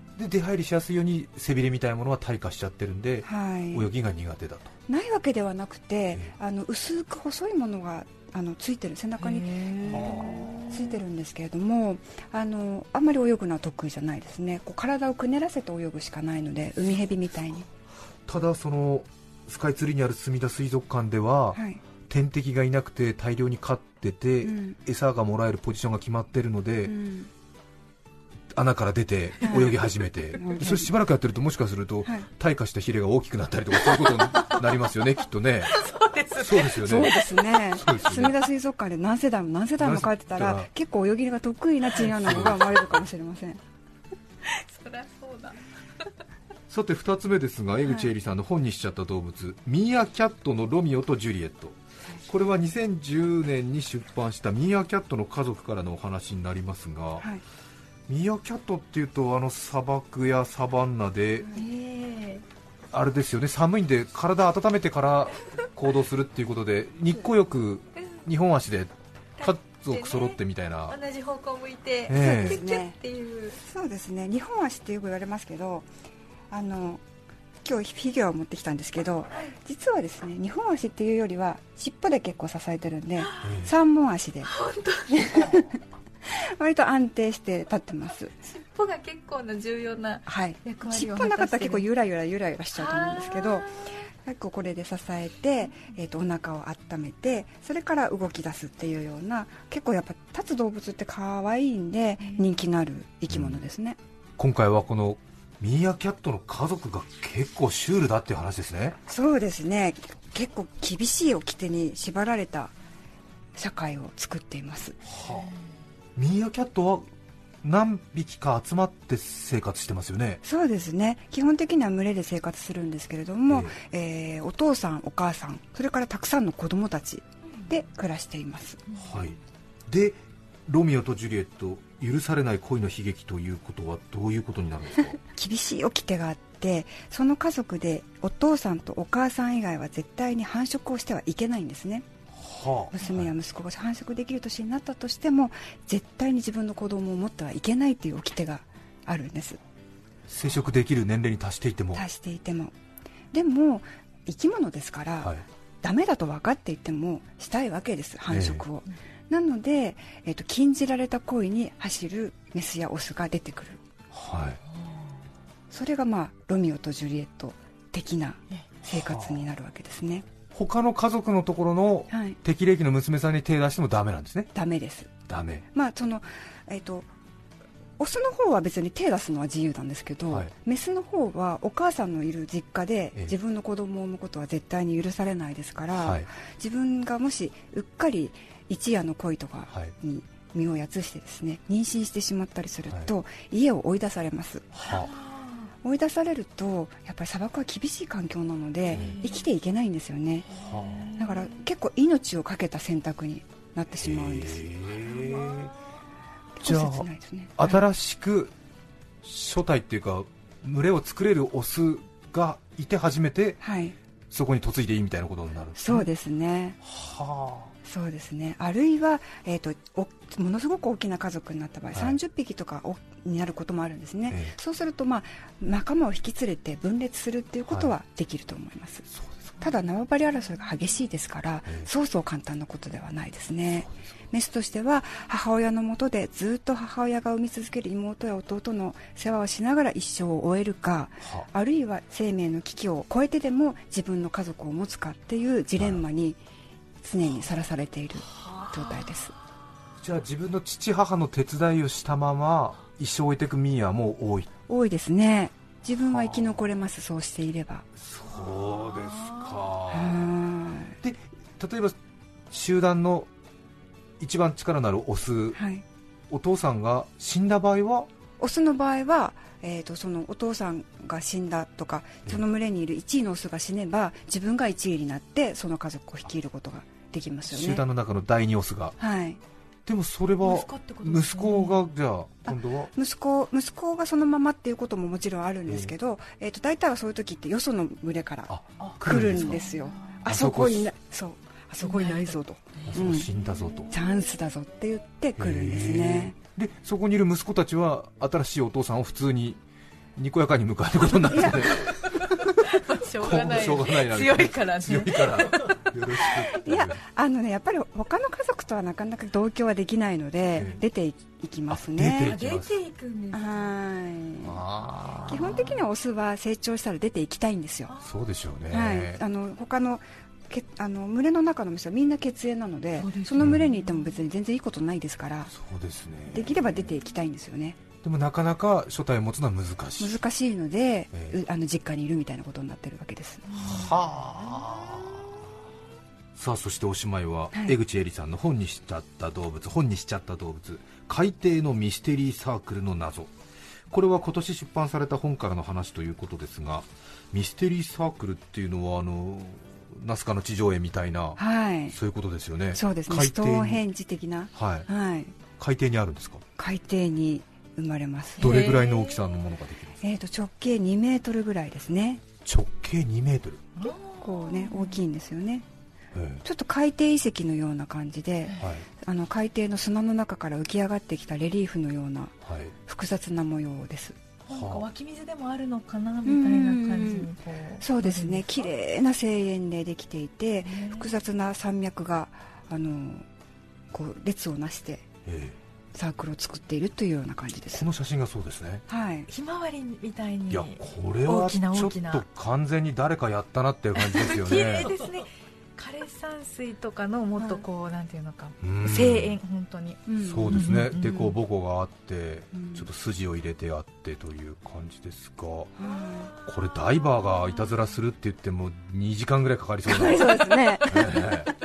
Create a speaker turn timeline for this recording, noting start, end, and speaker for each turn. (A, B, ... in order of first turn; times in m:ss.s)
0:00.2-0:04.7 A
0:03.2-0:03.9 B
0:04.9-0:17.7 B
0:09.2-0:10.7 C
0:09.9-0:10.6 A
0:18.3-0:26.9 A
0:21.5-0:21.8 B
0:24.4-0:24.8 B
0:26.8-0:27.3 B
0:28.5-0:35.8 A
0:29.4-0:29.7 B
0:30.4-0:30.9 B
0:33.9-0:34.6 C
0:35.7-0:37.4 C
0:36.3-0:37.1 A
0:36.8-0:43.6 B
0:37.7-0:38.4 A
0:39.8-0:40.7 A
0:42.0-0:43.0 A
0:44.4-0:45.6 C
0:46.7-0:57.2 A
0:58.1-1:01.5 A
1:01.5-1:02.4 C
1:02.9-1:11.0 A
1:09.4-1:10.4 C
1:10.9-1:13.6 C
1:12.1-1:12.6 A
1:12.1-1:13.0 B
1:13.6-1:15.9 B
1:16.5-1:17.0 B
1:17.6-1:24.5 B
1:23.4-1:23.7 A
1:24.5-1:25.5 C
1:25.1-1:28.3 B
1:28.5-1:31.9 C
1:30.3-1:44.0 B
1:32.7-1:33.8 C
1:42.2-1:42.5 C
1:43.3-1:43.6 A
1:44.4-1:49.0 A
1:49.1-1:52.7 B
1:53.5-1:55.0 B
1:55.0-1:55.5 A
1:56.2-1:57.1 A
1:57.6-2:00.4 A
2:00.4-2:08.8 B
2:03.5-2:03.7 A
2:09.0-2:15.2 A
2:15.2-2:22.0 B
2:22.3-2:23.3 A
2:22.9-2:29.6 B
2:30.3-2:32.0 A
2:31.9-2:32.7 B
2:33.3-2:43.8 B
2:38.3-2:38.6 A
2:44.1-2:44.6 A
2:45.7-2:50.2 B
2:48.8-2:49.4 A
2:50.5-2:54.5 A
2:52.1-2:52.4 B
2:54.5-2:55.1 B
2:55.3-2:55.6 A
2:55.7-2:57.1 B
2:58.0-3:14.7 B
3:05.9-3:06.3 A
3:14.7-3:15.1 A
3:14.8-3:15.7 C
3:15.8-3:20.5 B
3:18.9-3:19.2 A
3:18.9-3:19.4 C
3:20.5-3:21.1 A
3:20.5-3:21.5 C
3:21.2-3:24.7 B
3:24.0-3:25.7 A
3:25.1-3:25.7 C
3:26.6-3:27.8 B
3:26.6-3:28.5 A
3:29.2-3:33.6 A
3:33.6-3:34.0 B
3:34.3-3:36.1 A
3:35.8-3:36.8 B
3:36.8-3:37.7 A
3:37.8-3:49.1 B
3:44.3-3:44.5 A
3:49.1-3:49.6 A
3:49.6-4:06.4 B
4:07.0-4:09.3 B
4:08.5-4:09.1 C
4:10.0-4:14.5 A
4:14.7-4:17.9 B
4:16.1-4:16.6 A
4:18.0-4:20.3 A
4:18.7-4:19.6 C
4:19.9-4:21.0 B
4:21.0-4:22.0 A
4:22.5-4:23.3 A
4:24.2-4:25.6 A
4:25.5-4:25.8 B
4:26.3-4:28.1 A
4:28.4-4:37.8 B
4:37.5-4:39.0 A
4:39.0-4:39.4 B
4:39.8-4:42.9 A
4:40.4-4:41.8 C
4:42.4-4:53.3 B
4:45.7-4:45.9 A
4:48.5-4:49.6 A
4:48.8-4:50.2 C
4:50.2-4:50.9 A
4:51.8-4:53.9 C
4:52.9-4:53.9 A
4:53.9-4:56.3 B
4:55.4-4:59.6 A
5:00.2-5:07.0 A
5:02.6-5:06.3 C
5:06.5-5:12.4 B
5:10.5-5:10.8 A
5:11.7-5:12.8 A
5:12.2-5:13.7 C
5:13.3-5:14.6 B
5:14.4-5:15.7 A
5:15.2-5:17.9 B
5:17.9-5:18.2 C
5:18.0-5:19.2 A
5:18.7-5:25.5 B
5:23.0-5:24.1 C
5:25.5-5:26.7 A
5:26.3-5:27.8 B
5:28.0-5:30.2 A
5:30.0-5:33.5 B
5:31.1-5:31.4 A
5:33.5-5:34.0 C
5:33.6-5:35.3 A
5:36.4-5:43.3 A
5:43.9-5:51.4 A
5:51.4-5:52.0 B
5:51.9-5:53.8 A
5:52.7-5:55.3 B
5:54.5-5:54.9 A
5:55.6-5:56.4 A
5:56.6-5:58.6 B
5:58.4-5:59.4 C
5:58.4-6:00.0 A
6:00.0-6:02.2 B
6:02.4-6:03.7 A
6:03.8-6:05.0 C
6:03.8-6:05.6 B
6:06.1-6:06.4 A
6:06.4-6:14.2 B
6:08.6-6:08.8 A
6:12.4-6:12.7 A
6:14.5-6:18.6 C
6:14.5-6:14.9 A
6:16.2-6:17.3 B
6:17.8-6:23.2 B
6:20.6-6:21.1 C
6:23.9-6:25.1 B
6:25.2-6:25.6 A
6:25.9-6:27.9 B
6:27.7-6:28.8 A
6:28.9-6:29.3 B
6:29.3-6:32.2 C
6:30.5-6:34.9 A
6:34.0-6:41.3 C
6:38.6-6:39.4 A
6:40.1-6:40.5 B
6:40.2-6:45.7 A
6:42.5-6:42.8 B
6:45.8-6:46.3 B
6:45.8-6:47.8 C
6:46.4-6:51.5 A
6:49.9-6:51.3 B
6:50.5-6:51.0 C